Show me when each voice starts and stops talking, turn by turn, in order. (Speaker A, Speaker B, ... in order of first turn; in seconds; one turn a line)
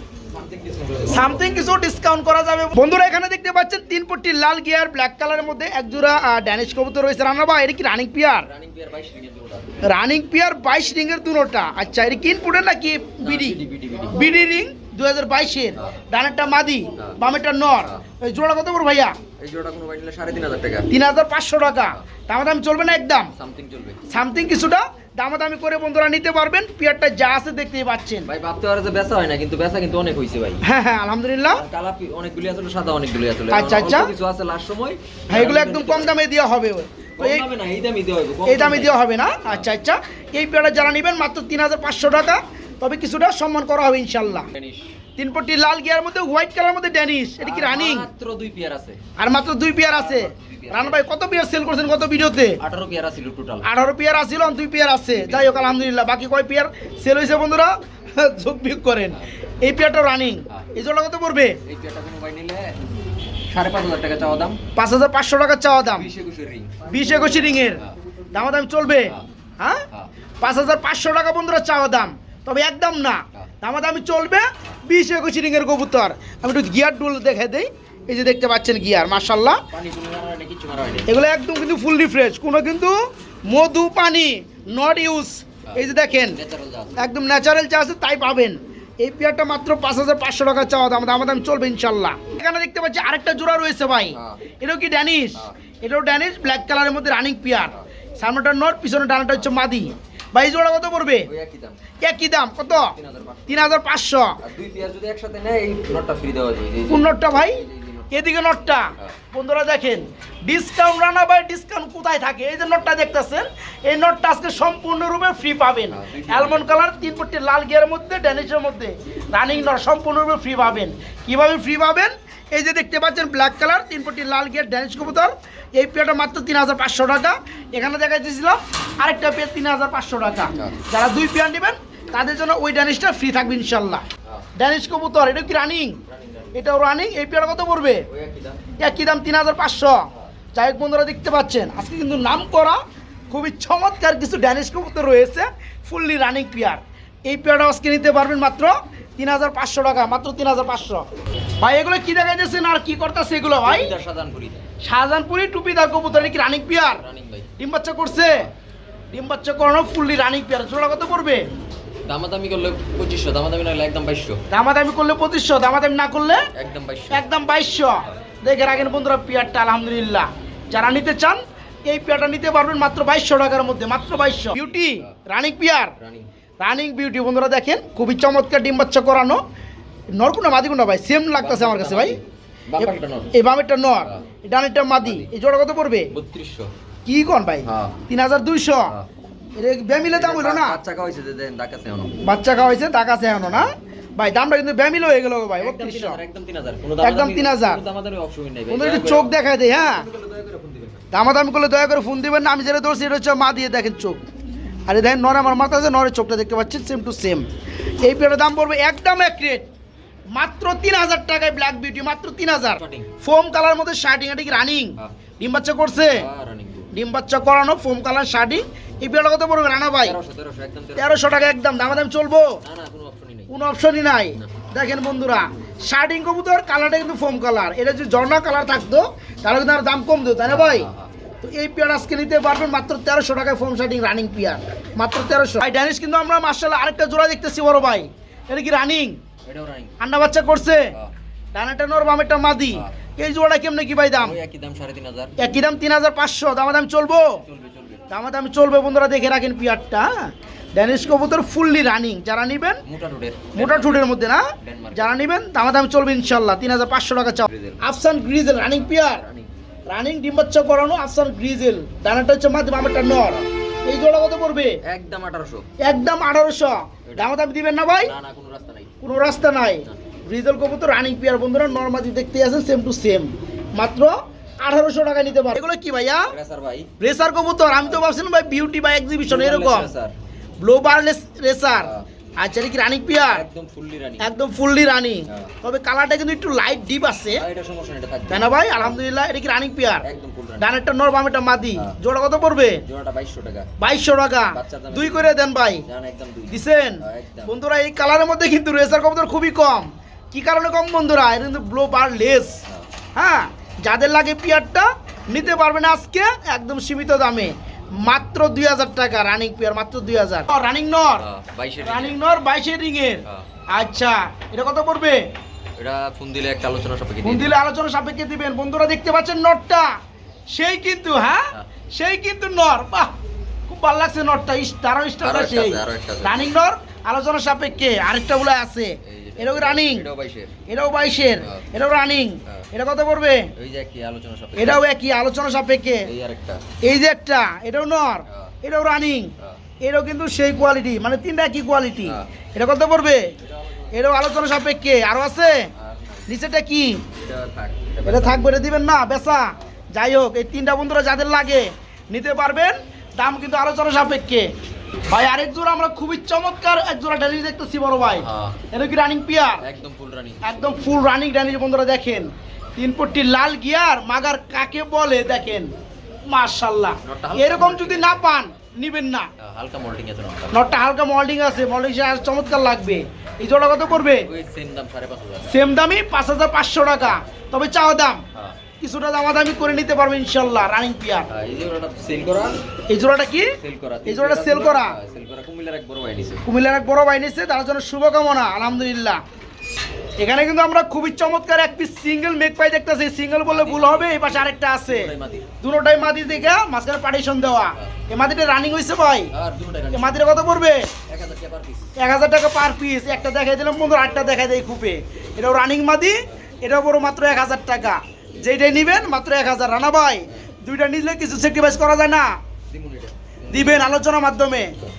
Speaker A: 0.3-1.6
Speaker B: 1.1-8.5
Speaker A: 8.4-9.8
Speaker B: 9.8-13.6
Speaker A: 13.2-14.3
Speaker B: 14.1-19.2
Speaker A: 19.4-20.9
Speaker B: 20.9-23.3
Speaker A: 21.8-22.0
Speaker A: 23.4-24.0
Speaker B: 24.1-28.3
Speaker A: 28.2-30.6
Speaker B: 30.6-31.6
Speaker A: 31.5-36.2
Speaker B: 33.5-34.1
Speaker B: 35.3-37.5
Speaker A: 37.2-39.7
Speaker B: 38.5-44.5
Speaker A: 44.5-45.0
Speaker B: 45.2-48.1
Speaker A: 47.4-49.0
Speaker B: 49.2-52.6
Speaker A: 49.9-51.1
Speaker A: 52.6-53.7
Speaker B: 53.6-61.6
Speaker A: 55.1-55.7
Speaker A: 61.6-62.8
Speaker A: 63.5-64.6
Speaker B: 64.7-66.1
Speaker A: 65.8-66.9
Speaker B: 66.8-69.9
Speaker B: 70.4-79.6
Speaker A: 79.7-81.2
Speaker B: 81.1-86.4
Speaker A: 85.7-87.1
Speaker B: 87.0-101.3
Speaker A: 94.1-94.4
Speaker A: 97.6-97.8
Speaker A: 101.3-101.8
Speaker B: 102.0-103.0
Speaker A: 102.7-103.8
Speaker B: 103.5-104.4
Speaker A: 104.4-108.3
Speaker B: 106.9-134.0
Speaker A: 115.9-116.7
Speaker A: 130.6-130.8
Speaker B: 134.6-136.0
Speaker A: 136.0-136.7
Speaker B: 136.5-138.1
Speaker A: 138.1-138.6
Speaker B: 138.8-151.1
Speaker B: 151.6-153.9
Speaker A: 153.5-154.7
Speaker B: 154.8-157.0
Speaker A: 156.8-157.5
Speaker B: 157.6-158.5
Speaker B: 159.1-161.5
Speaker A: 162.1-164.4
Speaker B: 164.5-166.5
Speaker A: 166.6-167.3
Speaker B: 167.1-175.9
Speaker A: 174.5-175.1
Speaker A: 176.0-176.3
Speaker B: 176.6-179.4
Speaker B: 180.2-182.2
Speaker A: 181.4-183.3
Speaker B: 182.8-186.1
Speaker A: 185.0-185.3
Speaker A: 186.1-186.7
Speaker B: 187.1-188.9
Speaker A: 187.7-188.0
Speaker B: 189.6-190.8
Speaker A: 190.1-192.2
Speaker B: 192.2-196.2
Speaker A: 195.6-201.1
Speaker B: 197.0-197.8
Speaker B: 198.7-200.1
Speaker B: 201.1-204.2
Speaker B: 204.9-207.5
Speaker B: 208.0-209.7
Speaker B: 210.3-216.3
Speaker A: 212.7-213.1
Speaker A: 216.1-216.9
Speaker B: 216.9-220.2
Speaker A: 220.0-221.4
Speaker B: 221.0-222.6
Speaker A: 222.6-223.5
Speaker B: 223.5-230.9
Speaker A: 230.5-231.1
Speaker B: 231.4-239.2
Speaker A: 239.5-239.9
Speaker B: 240.0-240.9
Speaker B: 241.5-244.4
Speaker A: 244.2-245.4
Speaker B: 245.4-247.4
Speaker A: 247.3-248.1
Speaker B: 248.1-252.8
Speaker A: 252.8-255.2
Speaker B: 253.5-259.2
Speaker A: 257.5-257.8
Speaker A: 258.6-259.5
Speaker B: 259.9-264.8
Speaker A: 264.8-265.7
Speaker B: 265.8-268.1
Speaker A: 267.1-267.4
Speaker A: 268.0-269.0
Speaker B: 269.0-276.3
Speaker A: 276.3-276.9
Speaker B: 277.0-279.9
Speaker A: 279.3-280.1
Speaker B: 280.6-283.5
Speaker A: 281.8-282.1
Speaker A: 283.2-284.3
Speaker B: 284.2-287.4
Speaker A: 287.3-289.0
Speaker B: 288.3-290.1
Speaker A: 290.0-290.7
Speaker B: 290.6-292.8
Speaker A: 291.7-292.0
Speaker A: 292.9-293.7
Speaker B: 293.8-295.8
Speaker A: 294.5-297.5
Speaker B: 296.5-302.6
Speaker B: 303.2-311.3
Speaker A: 311.2-312.2
Speaker B: 311.8-315.2
Speaker A: 315.8-317.6
Speaker B: 317.2-319.9
Speaker B: 320.5-323.1
Speaker B: 323.7-330.1
Speaker A: 325.2-326.5
Speaker A: 329.0-330.6
Speaker B: 330.7-333.5
Speaker A: 333.6-334.9
Speaker B: 334.6-336.1
Speaker A: 336.1-336.6
Speaker B: 336.8-343.3
Speaker A: 343.4-343.9
Speaker B: 343.9-345.7
Speaker A: 345.8-346.3
Speaker B: 346.3-347.0
Speaker A: 347.2-348.5
Speaker B: 348.1-354.5
Speaker B: 355.1-359.6
Speaker A: 358.2-358.6
Speaker A: 359.6-360.5
Speaker B: 360.4-365.7
Speaker B: 366.3-369.3
Speaker A: 367.0-368.3
Speaker A: 369.4-370.7
Speaker B: 370.5-374.3
Speaker A: 374.2-375.6
Speaker B: 375.5-378.2
Speaker B: 378.8-381.3
Speaker A: 381.3-382.6
Speaker B: 382.9-385.0
Speaker A: 383.6-386.5
Speaker B: 386.4-389.2
Speaker B: 390.2-399.3
Speaker A: 393.5-395.5
Speaker A: 399.3-400.5
Speaker B: 399.9-400.9
Speaker A: 401.1-401.9
Speaker B: 402.0-412.3
Speaker A: 412.7-413.9
Speaker B: 413.5-414.8